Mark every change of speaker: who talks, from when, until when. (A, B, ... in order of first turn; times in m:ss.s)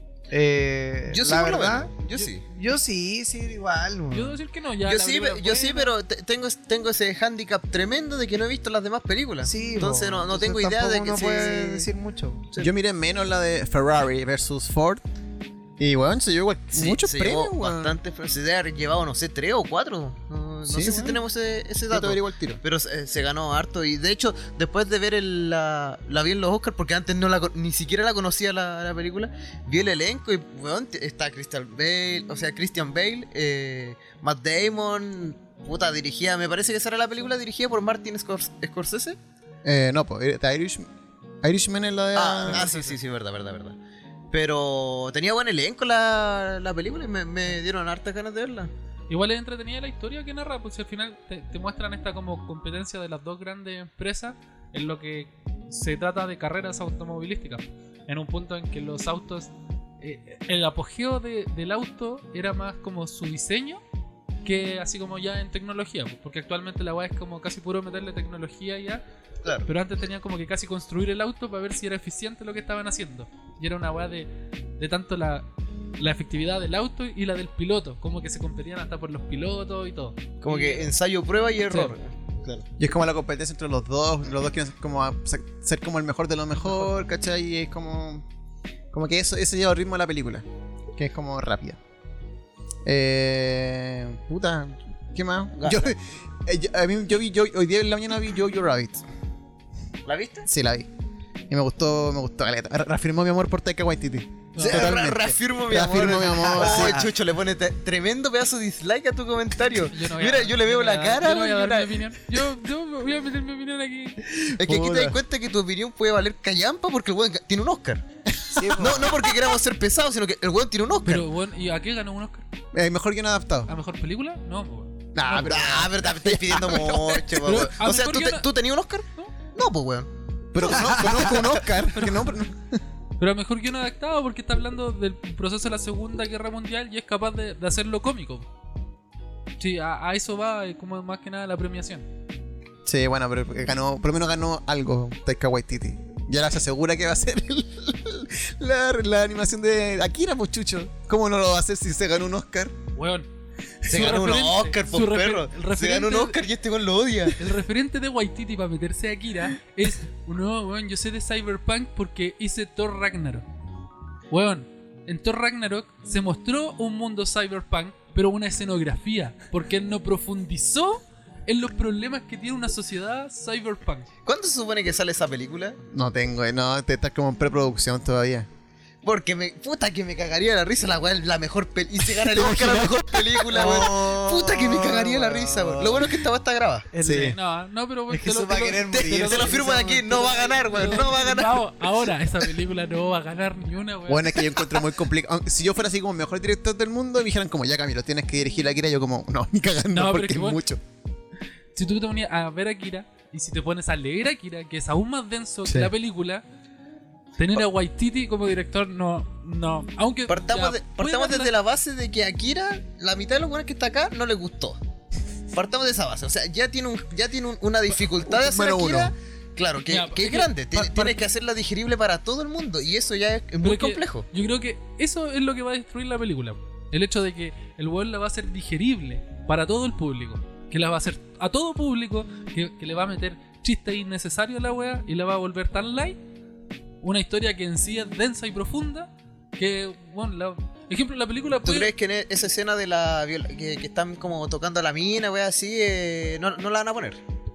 0:00.3-0:04.4 A
0:01.1-0:02.4 B
0:04.1-0:05.9 C
0:04.8-0:11.9 B
0:09.4-0:12.5 A
0:12.6-0:15.0 D
0:15.8-0:18.0 D
0:16.7-0:39.2 B
0:20.7-0:21.2 D
0:21.9-0:22.6 D
0:39.6-0:40.8 D
0:41.4-0:42.7 D
0:42.2-0:43.8 B
0:44.3-0:48.7 B
0:49.1-0:59.5 C
1:00.0-1:03.8 C
1:04.4-1:09.0 C
1:09.7-1:20.9 C
1:20.4-1:22.7 B
1:21.7-1:22.0 C
1:22.8-1:28.2 D
1:28.9-1:30.4 D
1:31.0-1:31.8 D
1:32.9-1:39.0 D
1:35.6-1:35.9 B
1:40.0-1:40.5 B
1:40.5-1:40.9 D
1:41.5-1:47.1 D
1:44.5-1:44.9 C
1:44.6-1:52.1 B
1:46.0-1:47.1 A
1:49.9-1:54.2 C
1:54.4-1:58.0 B
1:54.6-1:55.2 D
1:58.3-1:59.1 D
1:58.6-1:59.2 A
1:58.8-2:01.3 B
2:01.0-2:02.5 C
2:02.7-2:03.7 D
2:03.7-2:05.4 C
2:05.1-2:07.7 D
2:05.3-2:11.6 B
2:07.4-2:08.5 C
2:10.5-2:12.8 D
2:10.7-2:11.3 A
2:11.8-2:12.4 C
2:13.2-2:18.5 C
2:19.6-2:22.1 C
2:22.8-2:32.8 D
2:33.0-2:33.3 C
2:33.8-2:34.2 D
2:33.8-2:36.4 C
2:33.9-2:37.5 B
2:37.4-2:43.5 C
2:44.3-2:54.1 C
2:54.3-2:55.8 B
2:55.9-2:58.5 D
2:59.0-3:06.9 B
3:02.3-3:03.2 D
3:03.5-3:06.2 A
3:06.9-3:07.4 A
3:07.0-3:07.4 D
3:07.1-3:14.5 C
3:08.1-3:10.6 A
3:08.9-3:11.7 B
3:14.1-3:20.8 D
3:19.9-3:20.6 C
3:21.8-3:26.4 C
3:25.7-3:25.9 D
3:27.4-3:31.5 C
3:30.3-3:34.8 B
3:35.5-3:44.3 B
3:38.2-3:39.1 D
3:39.9-3:40.5 C
3:43.6-3:56.2 C
3:57.0-4:01.9 C
4:01.6-4:07.2 B